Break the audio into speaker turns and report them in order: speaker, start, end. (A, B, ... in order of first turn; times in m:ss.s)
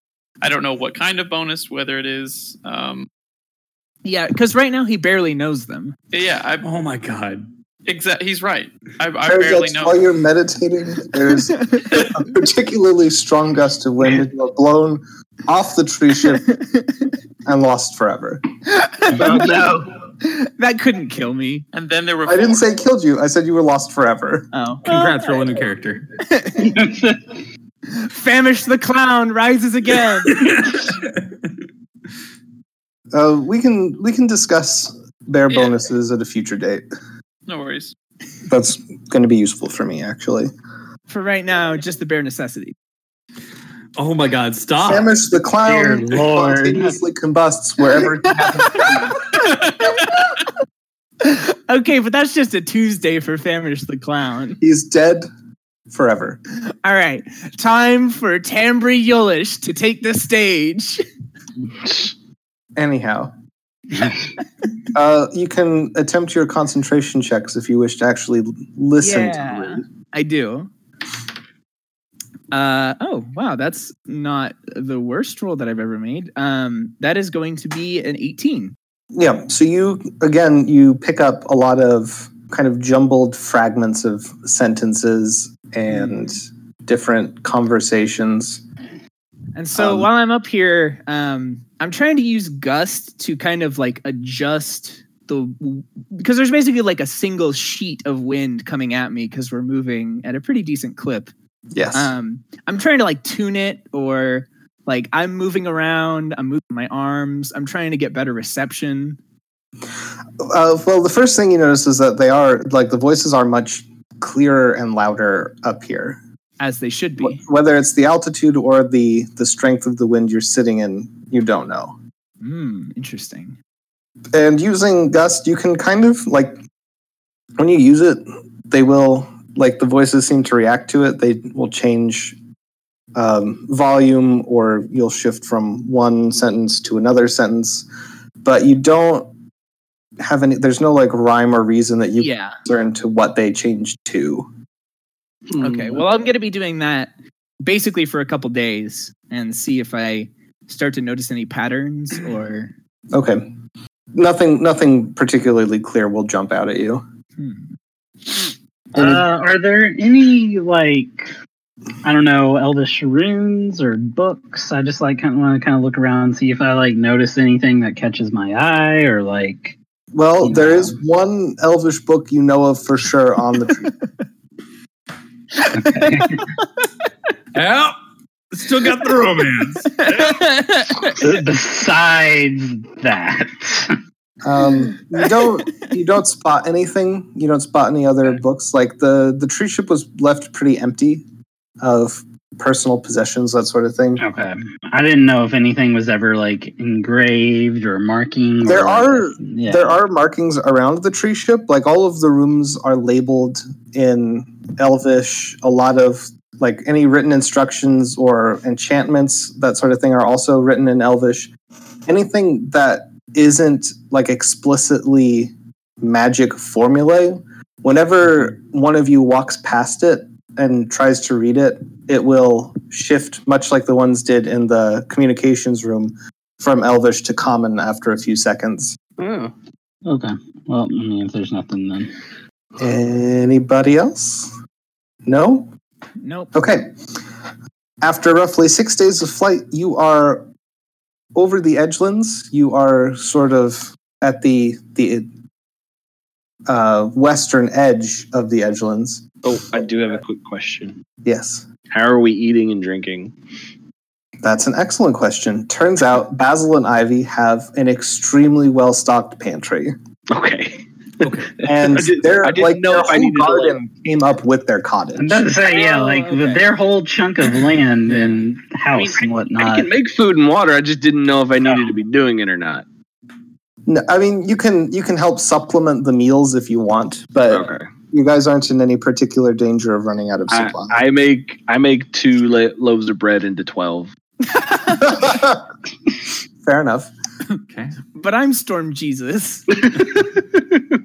0:00.4-0:03.1 A
0:04.0-0:06.0 B
0:06.1-0:06.6 A
0:06.6-0:07.5 C
0:07.8-0:10.0 A
0:09.2-0:16.5 D
0:16.5-0:16.9 B
0:17.4-0:18.4 D
0:18.7-0:19.5 B
0:19.1-0:19.8 D
0:19.1-0:19.8 E
0:20.2-0:21.6 B
0:21.7-0:22.6 A
0:22.2-0:24.5 D
0:24.5-0:25.3 B
0:24.8-0:26.1 C
0:26.2-0:26.7 B
0:26.6-0:27.4 E
0:27.9-0:30.5 B
0:30.3-0:31.2 C
0:33.1-0:36.8 D
0:35.5-0:35.8 A
0:37.5-0:37.9 A
0:38.5-0:40.5 D
0:41.1-0:42.7 B
0:44.0-0:45.1 C
0:44.8-0:49.2 D
0:45.6-0:47.0 E
0:51.2-0:54.6 B
0:54.6-0:55.3 D
0:55.9-0:56.4 D
0:56.7-1:01.0 B
1:02.8-1:03.3 D
1:03.9-1:04.2 E
1:04.9-1:09.8 D
1:09.0-1:10.7 B
1:12.5-1:18.7 B
1:19.1-1:28.6 D
1:25.9-1:26.4 B
1:29.5-1:41.3 B
1:29.8-1:30.1 D
1:41.7-1:42.1 D
1:41.9-1:49.2 B
1:50.4-1:56.2 D
1:56.6-1:57.4 B
1:57.2-2:02.0 D
2:02.4-2:03.6 B
2:04.3-2:06.6 D
2:07.6-2:12.4 D
2:13.1-2:17.8 D
2:18.4-2:19.3 D
2:20.2-2:24.5 D
2:22.2-2:22.6 B
2:25.5-2:26.0 F
2:25.6-2:32.7 B
2:33.1-2:33.5 D
2:34.1-2:37.0 D
2:37.4-2:37.7 B
2:38.9-2:41.3 E
2:39.0-2:39.2 D
2:42.0-2:49.8 E
2:50.1-2:53.9 D
2:50.4-2:51.0 E
2:55.6-2:56.5 B
2:55.7-2:56.4 E
2:57.5-2:58.0 C
2:58.5-3:00.2 C
3:00.0-3:01.2 B
3:01.1-3:04.0 E
3:04.4-3:11.2 D
3:11.8-3:14.2 D
3:14.2-3:20.0 E
3:18.7-3:31.5 D
3:32.1-3:49.0 D
3:49.2-3:49.5 F
3:50.0-3:52.1 E
3:52.8-3:54.5 D
3:55.2-3:55.7 D
3:56.2-3:56.5 B
3:56.5-3:56.9 D
3:58.0-4:00.5 D
4:01.3-4:05.3 D
4:06.7-4:09.3 D
4:09.4-4:11.0 F
4:11.2-4:11.7 D
4:11.9-4:13.3 F
4:14.4-4:19.9 D
4:20.3-4:23.8 F
4:21.2-4:21.5 C
4:21.6-4:25.5 D
4:25.1-4:29.9 E
4:25.6-4:26.6 B
4:29.0-4:32.8 F
4:33.8-4:41.0 D
4:37.5-4:37.9 F
4:40.5-4:44.1 F
4:45.0-4:45.6 D
4:46.6-4:47.1 D
4:47.7-4:47.9 C
4:48.1-4:49.8 B
4:49.9-4:50.8 F